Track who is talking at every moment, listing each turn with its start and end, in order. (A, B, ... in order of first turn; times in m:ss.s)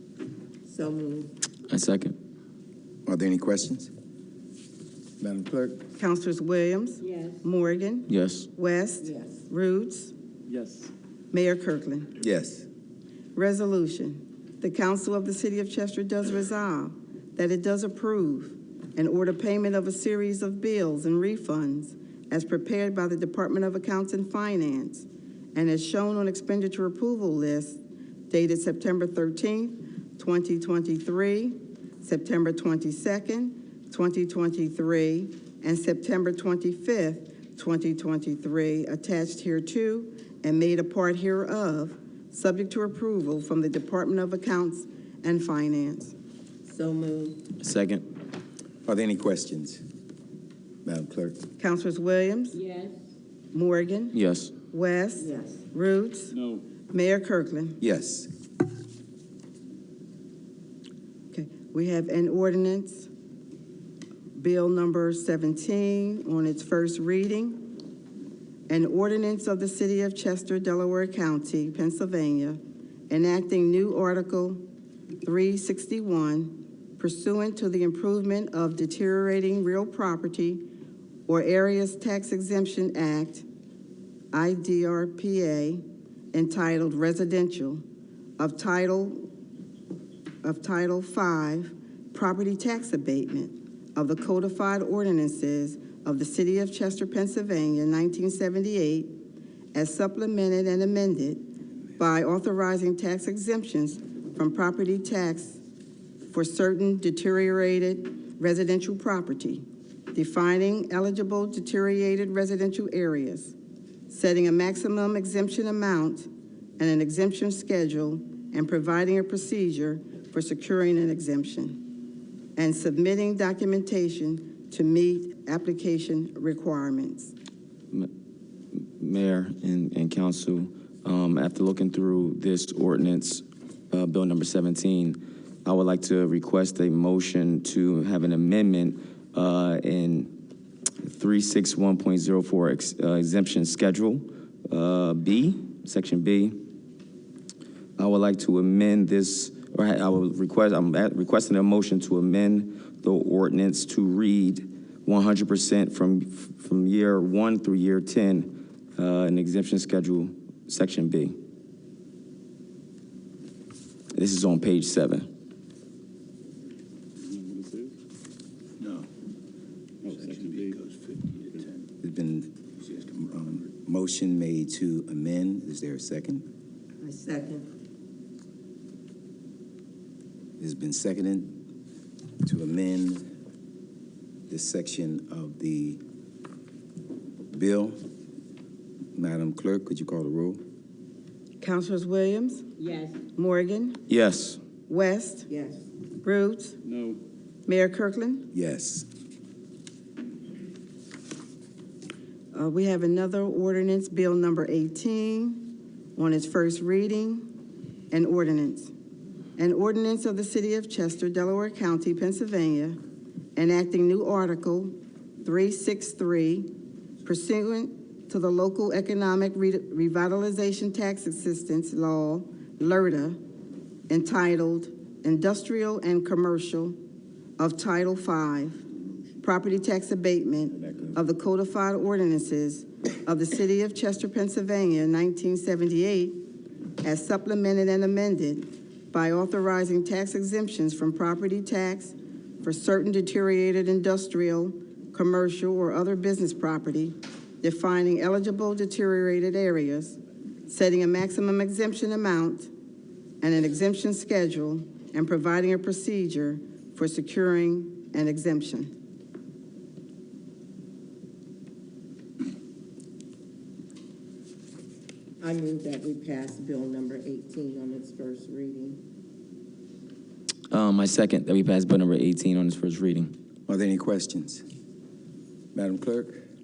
0:00.7-0:01.3 A
0:01.7-0:02.2 B
0:03.1-0:03.9 C
0:05.2-0:05.9 C
0:06.0-0:10.1 D
0:08.1-0:08.5 B
0:09.0-0:09.4 A
0:10.5-0:10.9 E
0:11.3-0:12.1 D
0:12.2-0:12.7 C
0:13.4-0:46.2 D
0:46.6-0:47.4 A
0:47.6-0:48.0 B
0:48.8-0:49.8 C
0:50.8-0:51.4 C
0:51.6-0:52.6 D
0:53.5-0:54.2 D
0:54.1-0:54.6 B
0:54.7-0:56.4 D
0:55.2-0:55.6 A
0:56.3-0:56.6 E
0:56.9-0:57.8 D
0:57.8-0:58.3 C
1:01.3-1:03.1 D
1:04.4-1:07.7 D
1:08.7-1:14.6 D
1:15.2-1:20.7 D
1:21.3-1:23.4 D
1:24.3-1:25.8 D
1:26.3-1:27.8 D
1:28.4-1:29.3 D
1:30.4-1:39.2 D
1:39.7-1:41.5 D
1:42.0-1:45.6 D
1:46.3-1:53.6 D
1:54.1-1:56.3 D
1:56.8-2:01.9 D
2:02.6-2:07.3 D
2:09.0-2:20.3 B
2:21.0-2:26.6 B
2:28.0-2:41.4 B
2:44.1-2:45.3 B
2:47.2-2:47.9 E
2:50.2-2:50.8 E
2:52.0-2:56.4 C
2:57.0-2:57.7 A
3:00.6-3:01.6 C
3:02.4-3:03.2 C
3:04.5-3:06.0 C
3:07.5-3:08.0 C
3:09.2-3:10.6 C
3:11.6-3:14.0 D
3:14.1-3:14.6 B
3:14.9-3:15.5 D
3:15.5-3:15.8 A
3:16.2-3:16.8 D
3:16.8-3:17.2 E
3:17.7-3:18.5 D
3:18.5-3:19.1 C
3:22.5-3:27.5 D
3:28.1-3:28.9 D
3:29.6-3:33.0 D
3:33.6-3:36.7 D
3:37.2-3:43.4 D
3:44.1-3:47.0 D
3:47.6-3:48.8 D
3:49.4-3:56.4 D
3:57.0-4:12.7 D
4:13.4-4:18.9 D
4:25.4-4:29.0 A
4:30.7-4:33.3 B
4:33.7-4:34.6 C
4:35.7-4:36.4 C